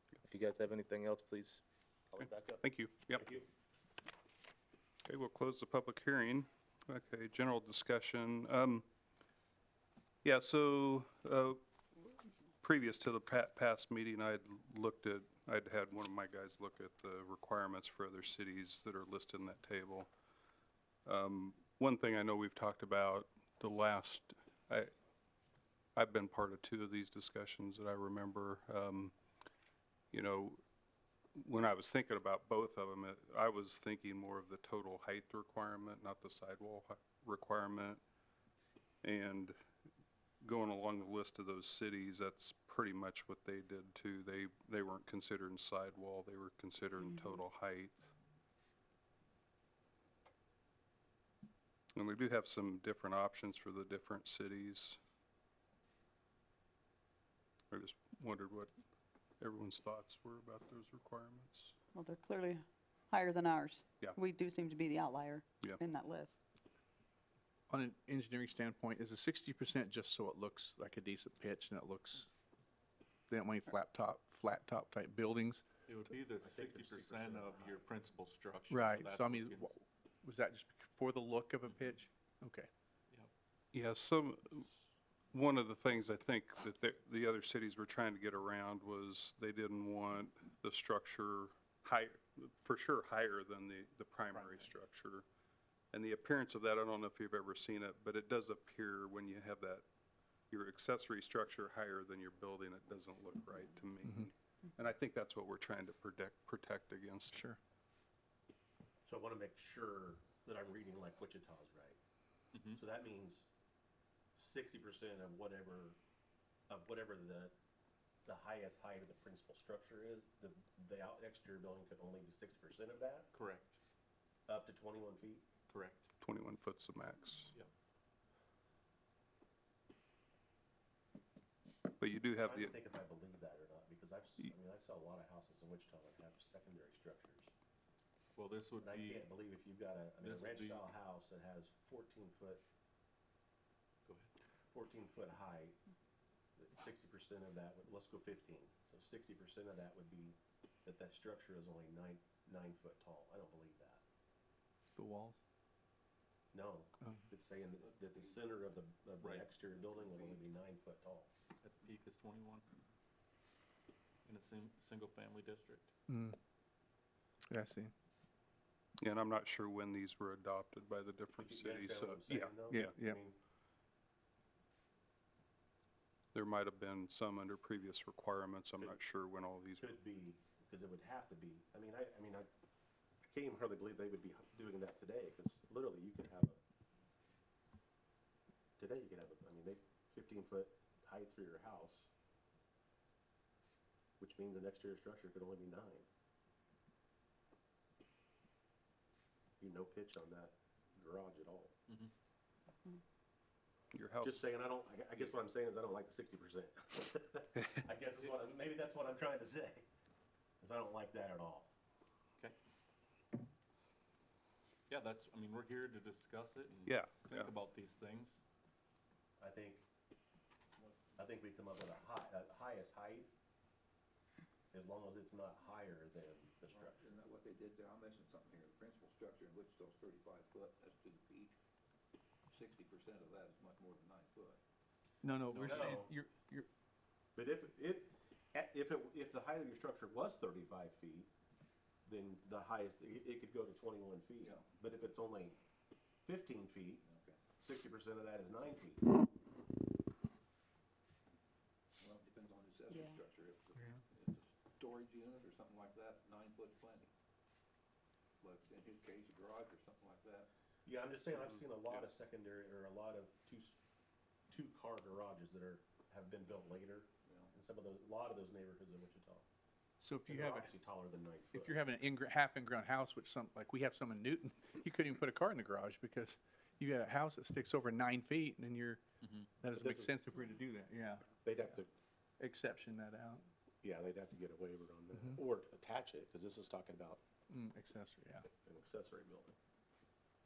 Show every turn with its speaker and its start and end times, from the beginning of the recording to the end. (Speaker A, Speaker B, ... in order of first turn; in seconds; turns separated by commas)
Speaker A: 0.2-2.6, Speaker B: 2.2-3.3, Speaker A: 3.1-3.5, Speaker B: 5.1-8.8, Speaker B: 10.2-20.1, Speaker B: 21.1-24.9, Speaker B: 26.0-29.1, Speaker B: 30.1-30.6, Speaker B: 31.4-38.0, Speaker B: 39.0-39.5, Speaker B: 40.4-48.0, Speaker B: 52.0-55.0, Speaker B: 57.7-58.7, Speaker B: 59.4-61.8, Speaker C: 61.9-66.4, Speaker D: 67.7-72.3, Speaker D: 73.3-75.7, Speaker E: 75.9-79.7, Speaker F: 76.4-77.8, Speaker D: 78.7-82.7, Speaker B: 83.7-84.7, Speaker B: 85.3-95.2, Speaker E: 94.3-94.7, Speaker B: 95.9-99.8, Speaker B: 100.5-107.4, Speaker D: 104.0-104.3, Speaker D: 107.3-107.6, Speaker F: 109.1-112.0, Speaker E: 112.5-112.8, Speaker F: 112.7-113.5, Speaker F: 114.4-116.0, Speaker F: 116.7-117.5, Speaker F: 118.2-123.3, Speaker E: 123.3-123.8, Speaker F: 124.5-125.5, Speaker E: 125.7-126.1, Speaker B: 126.2-127.5, Speaker B: 132.0-132.7, Speaker F: 132.4-137.5, Speaker E: 138.4-139.3, Speaker F: 138.8-142.6, Speaker E: 140.2-140.9, Speaker E: 144.1-144.3, Speaker F: 144.7-145.8, Speaker F: 146.6-154.0, Speaker D: 155.0-155.4, Speaker F: 156.5-161.3, Speaker G: 157.8-158.7, Speaker E: 159.2-159.5, Speaker G: 159.5-160.5, Speaker E: 161.6-162.7, Speaker E: 164.2-165.9, Speaker D: 166.1-166.4, Speaker D: 167.5-167.9, Speaker B: 169.0-172.8, Speaker F: 171.4-173.4, Speaker D: 172.7-173.2, Speaker B: 176.3-179.9, Speaker F: 179.8-182.5, Speaker F: 183.2-186.6, Speaker F: 188.8-192.1, Speaker F: 194.2-196.1, Speaker F: 199.6-201.8, Speaker B: 203.9-204.4, Speaker F: 204.2-209.9, Speaker F: 210.6-211.7, Speaker E: 214.9-218.4, Speaker B: 216.9-217.5, Speaker F: 219.4-219.8, Speaker G: 220.8-221.3, Speaker F: 221.2-223.3, Speaker F: 224.7-227.2, Speaker G: 226.7-231.6, Speaker G: 232.5-234.6, Speaker D: 235.2-236.7, Speaker F: 235.5-236.1, Speaker E: 235.7-236.0, Speaker F: 237.3-241.3, Speaker F: 242.1-245.6, Speaker G: 244.4-244.7, Speaker F: 246.3-247.0, Speaker G: 247.0-247.4, Speaker F: 247.6-249.1, Speaker G: 252.0-257.1, Speaker C: 252.9-253.2, Speaker G: 258.4-260.5, Speaker F: 260.9-263.8, Speaker E: 261.4-262.0, Speaker F: 264.5-269.4, Speaker G: 267.3-267.5, Speaker D: 270.0-270.7, Speaker F: 270.3-271.8, Speaker D: 271.5-279.0, Speaker D: 279.6-281.8, Speaker F: 279.7-280.1, Speaker F: 281.4-281.9, Speaker D: 282.4-283.5, Speaker F: 283.8-287.2, Speaker D: 285.1-285.4, Speaker D: 287.5-288.5, Speaker F: 288.6-289.6